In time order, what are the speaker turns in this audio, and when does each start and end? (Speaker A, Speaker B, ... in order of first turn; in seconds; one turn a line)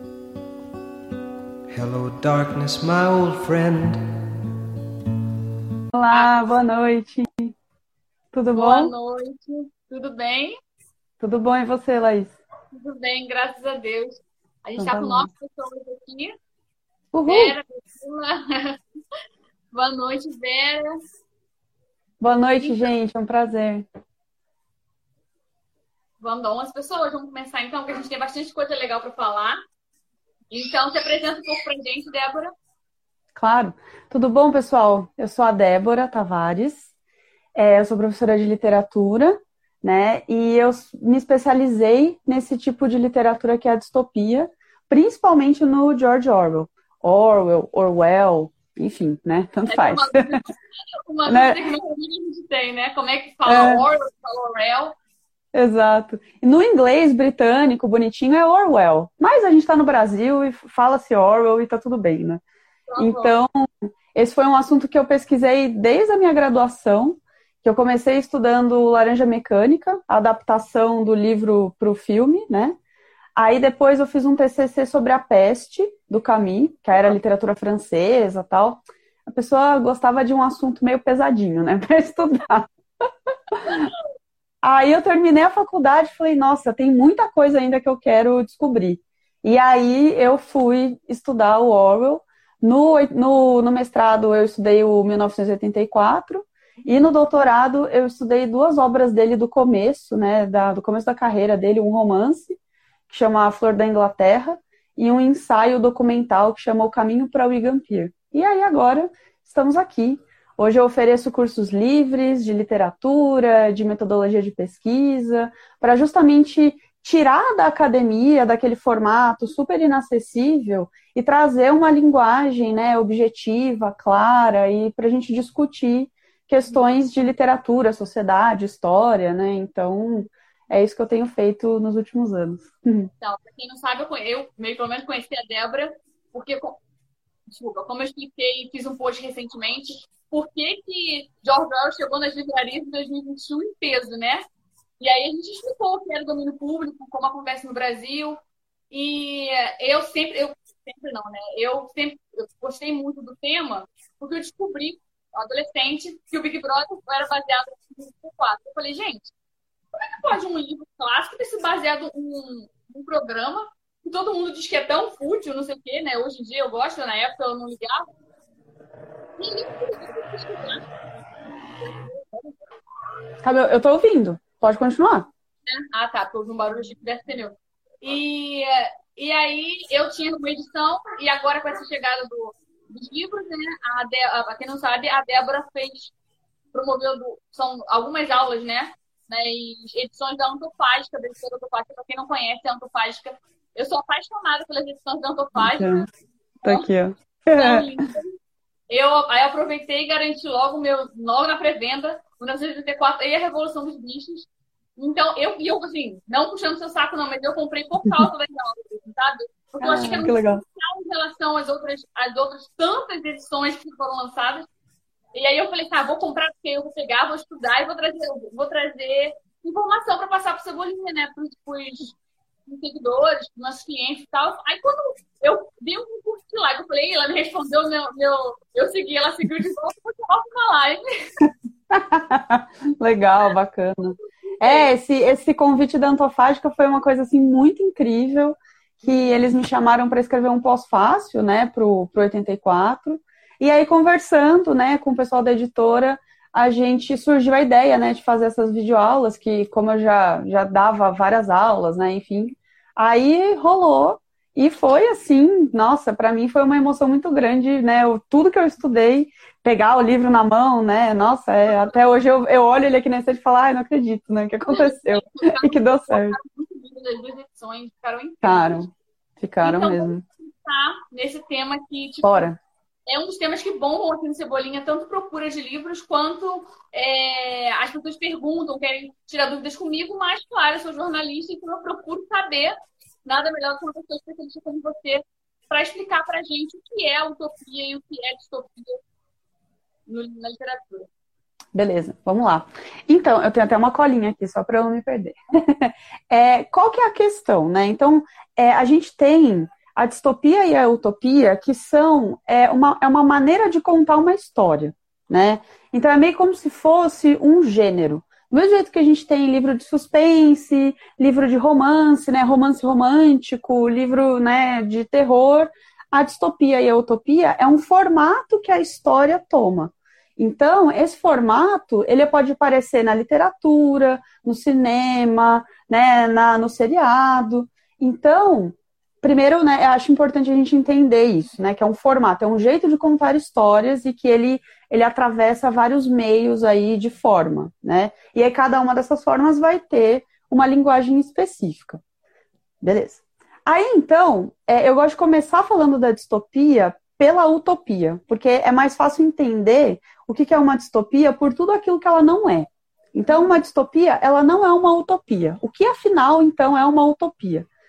Speaker A: 1.7-4.2
Speaker B: 5.9-7.5
Speaker C: 6.1-6.5
Speaker B: 8.3-8.9
Speaker C: 8.5-10.6
Speaker B: 11.2-12.4
Speaker C: 12.7-16.4
Speaker B: 14.8-15.3
Speaker B: 17.1-17.6
Speaker C: 17.3-18.8
Speaker C: 19.7-21.0
Speaker B: 22.2-23.8
Speaker C: 22.6-22.9
Speaker C: 26.2-29.6
Speaker C: 30.5-32.5
Speaker B: 33.4-36.8
Speaker B: 37.5-50.3
Speaker C: 49.7-55.0
Speaker B: 51.3-51.6
Speaker B: 53.5-53.8
Speaker B: 55.5-62.4
Speaker C: 62.9-63.3
Speaker B: 63.0-72.8
Speaker B: 73.3-82.7
Speaker B: 83.5-83.9
Speaker B: 84.6-102.6
Speaker B: 103.1-133.1
Speaker C: 133.2-136.8
Speaker C: 137.5-144.4
Speaker C: 145.0-148.4
Speaker C: 148.9-159.3
Speaker C: 160.0-168.0
Speaker C: 169.4-170.8
Speaker C: 171.8-172.5
Speaker B: 173.4-175.3
Speaker C: 175.7-186.1
Speaker C: 186.7-196.1
Speaker B: 195.6-196.0
Speaker B: 196.6-197.8
Speaker C: 197.5-198.4
Speaker C: 198.9-214.7
Speaker B: 209.8-210.6
Speaker C: 215.3-222.2
Speaker C: 222.7-231.1
Speaker B: 231.9-266.4
Speaker C: 234.6-234.9
Speaker C: 264.6-268.8
Speaker B: 268.4-270.2
Speaker C: 269.6-272.5
Speaker B: 272.2-272.6
Speaker C: 273.1-289.0
Speaker C: 290.1-291.1
Speaker B: 291.7-342.0
Speaker B: 342.8-357.7
Speaker C: 353.3-353.5